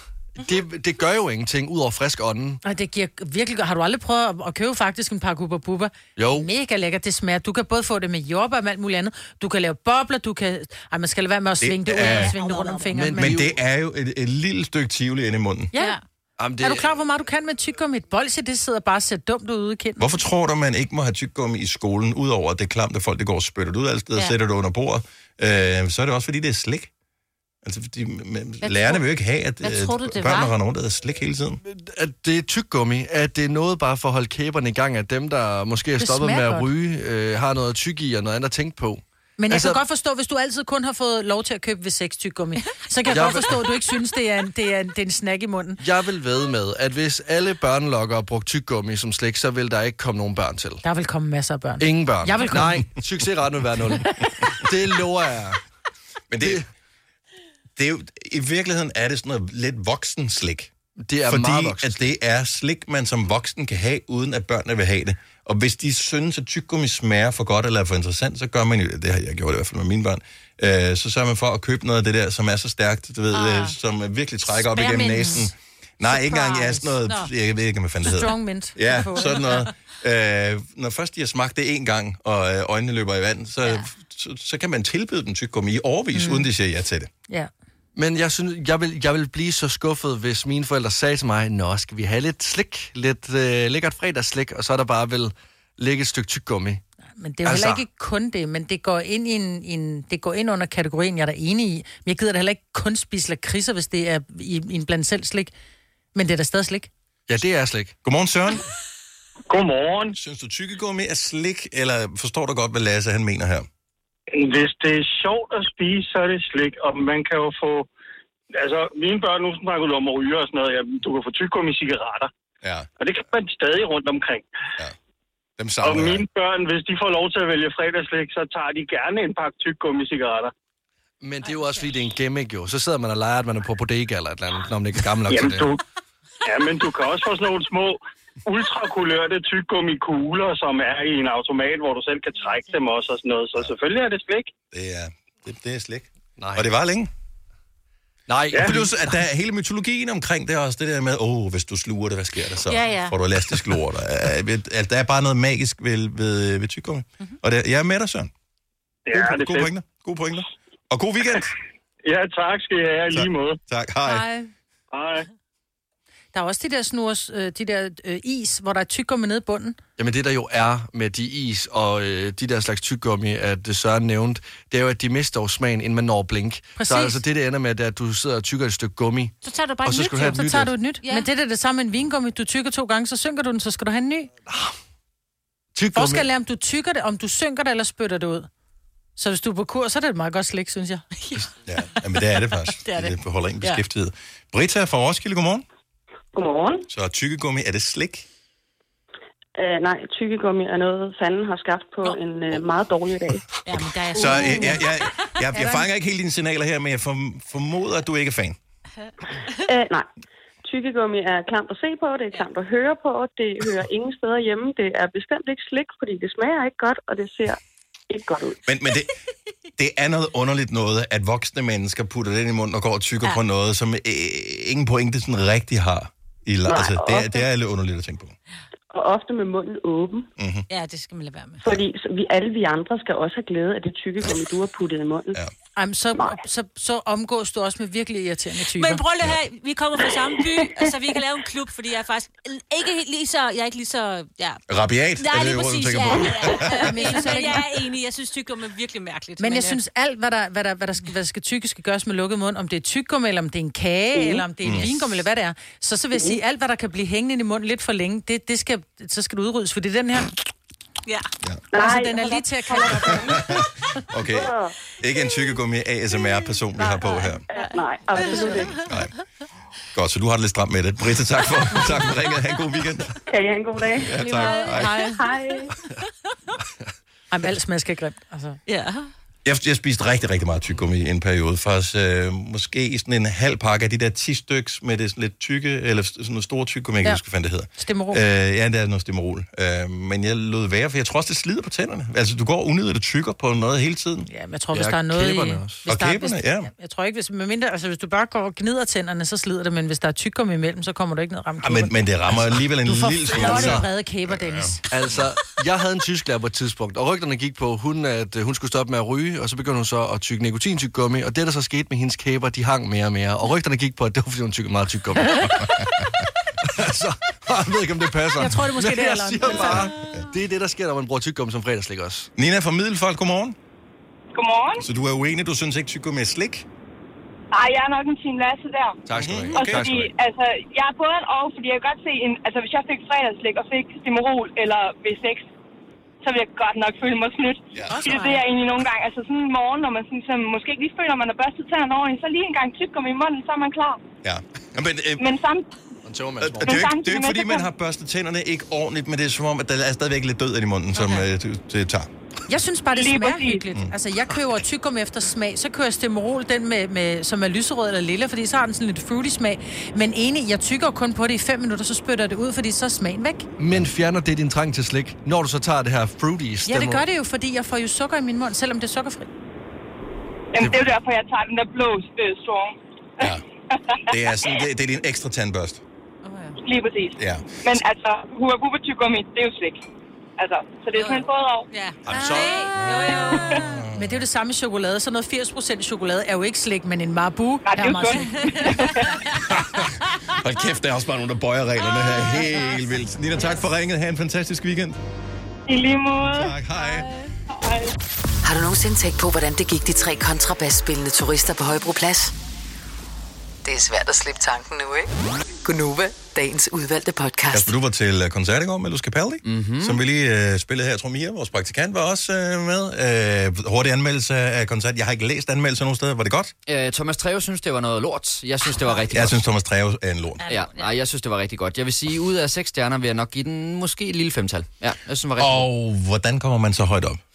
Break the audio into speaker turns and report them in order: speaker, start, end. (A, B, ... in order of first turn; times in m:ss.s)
0:00.4-0:02.6 A
0:02.6-0:13.4 B
0:06.2-0:06.5 A
0:11.6-0:12.4 C
0:12.0-0:13.0 D
0:12.9-0:13.6 A
0:13.2-0:15.7 C
0:15.8-0:16.0 D
0:16.4-0:17.0 A
0:16.6-0:20.1 B
0:20.0-0:26.9 C
0:27.6-0:31.6 C
0:28.6-0:29.0 D
0:29.6-0:30.6 D
0:31.6-0:39.8 A
0:36.0-0:36.7 B
0:39.4-0:45.8 B
0:43.1-0:43.6 A
0:45.8-0:50.8 A
0:50.8-0:52.9 B
0:51.8-0:55.6 A
0:56.3-0:56.6 C
0:57.8-1:00.7 C
1:01.0-1:02.0 A
1:01.2-1:27.1 C
1:13.3-1:13.7 D
1:14.6-1:15.5 D
1:16.1-1:16.9 B
1:18.0-1:19.6 B
1:26.2-1:26.5 B
1:28.0-1:36.8 A
1:37.2-1:45.5 B
1:37.4-1:37.8 A
1:46.2-1:46.9 B
1:47.3-1:48.0 A
1:48.0-1:48.6 C
1:49.5-1:50.2 E
1:50.2-1:53.7 C
1:54.3-1:57.9 E
1:58.5-2:02.3 E
2:02.6-2:02.9 C
2:03.0-2:04.5 E
2:05.6-2:06.3 C
2:05.8-2:10.5 E
2:11.2-2:15.7 A
2:11.5-2:11.9 D
2:15.3-2:15.8 E
2:16.4-2:24.5 E
2:24.7-2:27.1 C
2:26.4-2:26.7 A
2:28.3-2:28.9 A
2:28.6-2:38.3 C
2:32.7-2:33.2 D
2:39.1-2:39.7 E
2:39.1-2:41.5 C
2:42.1-2:43.6 E
2:43.1-2:44.3 C
2:44.0-2:44.5 B
2:44.9-2:45.3 E
2:46.3-2:49.8 B
2:50.0-3:00.7 A
2:56.8-2:57.2 B
2:59.4-3:00.5 D
3:00.2-3:04.3 B
3:04.5-3:04.7 A
3:05.8-3:06.3 A
3:06.0-3:08.5 B
3:09.2-3:11.1 B
3:11.2-3:11.5 D
3:11.6-3:15.6 C
3:12.8-3:13.8 D
3:16.3-3:16.9 F
3:16.9-3:18.3 C
3:19.6-3:23.4 F
3:23.6-3:25.3 D
3:23.7-3:28.6 C
3:25.6-3:25.8 B
3:29.7-3:30.1 F
3:30.6-3:37.6 F
3:38.1-3:38.6 F
3:38.6-3:39.1 C
3:39.8-3:48.4 C
3:46.7-3:47.4 F
3:48.9-3:50.3 F
3:50.4-3:50.7 C
3:50.7-3:51.6 D
3:51.6-3:55.4 F
3:55.8-3:59.0 B
3:58.7-4:04.6 D
4:04.7-4:07.1 C
4:05.2-4:09.8 D
4:06.7-4:07.6 B
4:09.4-4:20.3 B
4:14.2-4:14.4 F
4:14.6-4:14.9 C
4:16.1-4:16.4 F
4:21.7-4:23.4 F
4:21.8-4:23.4 B
4:23.1-4:27.4 C
4:24.2-4:24.7 F
4:26.8-4:28.9 D
4:27.5-4:28.8 F
4:28.2-4:28.6 B
4:28.8-4:29.1 C
4:29.9-4:33.2 C
4:33.3-4:34.5 F
4:34.0-4:35.1 C
4:34.2-4:35.3 D
4:35.1-4:35.7 F
4:37.3-4:38.6 B
4:38.7-4:39.1 D
4:39.4-4:54.3 C
4:47.8-4:48.2 B
4:54.3-5:02.0 B
4:54.7-4:55.8 A
4:55.9-4:56.7 C
5:01.6-5:04.8 C
5:02.8-5:04.8 B
5:04.9-5:15.9 A
5:16.6-5:22.3 A
5:18.4-5:19.9 B
5:22.4-5:23.6 C
5:24.4-5:24.8 G
5:24.8-5:26.7 C
5:27.5-5:29.0 G
5:29.1-5:30.1 A
5:29.1-5:29.8 C
5:29.5-5:35.5 G
5:36.2-5:44.0 G
5:37.8-5:38.0 C
5:37.9-5:38.4 B
5:44.2-5:45.3 C
5:45.2-5:45.7 G
5:46.0-5:46.9 A
5:46.4-5:52.1 C
5:46.6-5:47.7 G
5:52.5-6:03.5 B
5:52.9-5:53.6 G
6:03.6-6:07.0 A
6:06.7-6:09.3 B
6:10.5-6:14.0 G
6:10.6-6:10.9 A
6:14.1-6:15.8 C
6:16.2-6:16.6 D
6:16.6-6:19.8 G
6:17.2-6:17.8 C
6:20.4-6:21.7 G
6:21.0-6:23.6 D
6:22.1-6:24.2 C
6:22.1-6:22.5 B
6:23.4-6:23.6 G
6:23.9-6:28.9 B
6:27.7-6:29.1 G
6:28.2-6:29.5 D
6:29.8-6:35.0 C
6:32.0-6:32.7 D
6:35.7-6:36.5 G
6:36.2-6:37.1 C
6:36.8-6:37.2 D
6:37.5-6:37.9 G
6:38.4-6:42.3 H
6:43.6-6:45.1 H
6:45.6-6:47.7 H
6:47.5-6:56.5 C
6:49.4-6:50.0 I
6:56.7-6:59.4 I
6:59.1-7:00.5 C
7:00.4-7:00.9 D
7:00.5-7:05.7 I
7:05.4-7:07.2 C